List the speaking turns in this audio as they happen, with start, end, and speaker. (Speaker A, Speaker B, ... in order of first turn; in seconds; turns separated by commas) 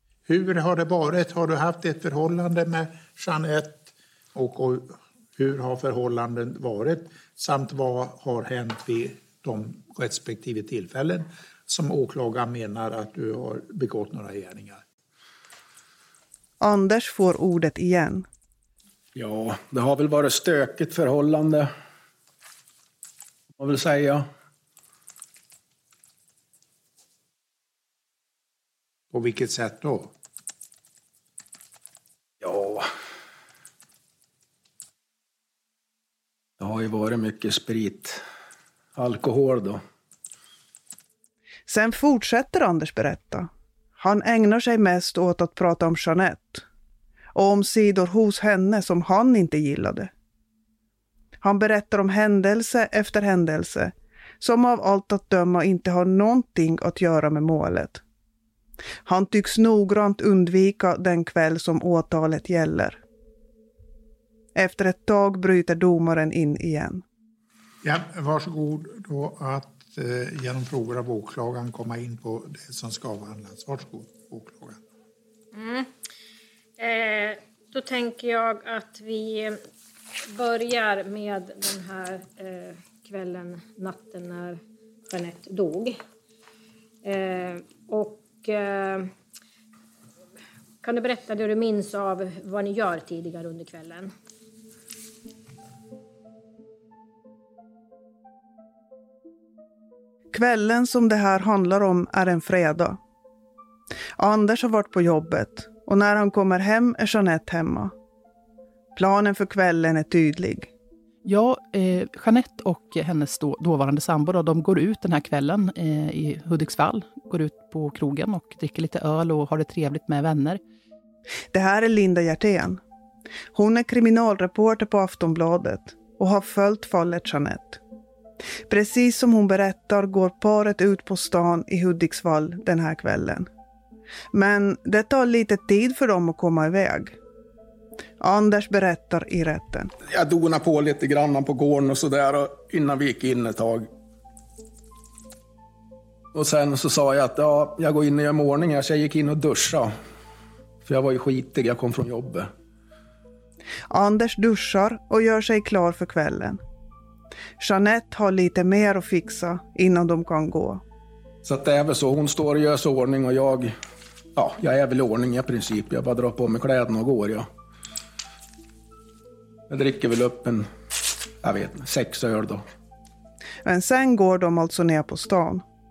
Speaker A: 0.3-14.8, Speaker B: 16.6-18.2, Speaker C: 19.1-21.7, Speaker C: 23.6-24.2, Speaker A: 29.1-30.1, Speaker C: 32.4-32.9, Speaker C: 36.6-38.2, Speaker C: 38.9-39.8, Speaker B: 41.7-46.6, Speaker B: 47.3-50.1, Speaker B: 51.4-58.0, Speaker B: 59.0-63.0, Speaker B: 64.5-67.0, Speaker A: 67.8-74.8, Speaker D: 75.5-75.9, Speaker D: 76.8-79.6, Speaker D: 80.3-86.0, Speaker D: 87.0-89.1, Speaker D: 90.8-94.1, Speaker B: 100.3-103.0, Speaker B: 104.2-107.9, Speaker B: 108.9-110.7, Speaker E: 111.2-120.6, Speaker B: 121.5-122.8, Speaker B: 123.5-127.8, Speaker B: 128.7-133.5, Speaker B: 134.3-137.2, Speaker B: 138.2-139.9, Speaker C: 140.1-143.9, Speaker C: 146.3-149.9, Speaker C: 150.8-152.5, Speaker B: 153.9-156.6, Speaker B: 157.6-160.8, Speaker C: 161.4-163.7, Speaker C: 164.3-167.5, Speaker C: 169.7-170.6, Speaker C: 171.4-172.6, Speaker B: 173.6-175.6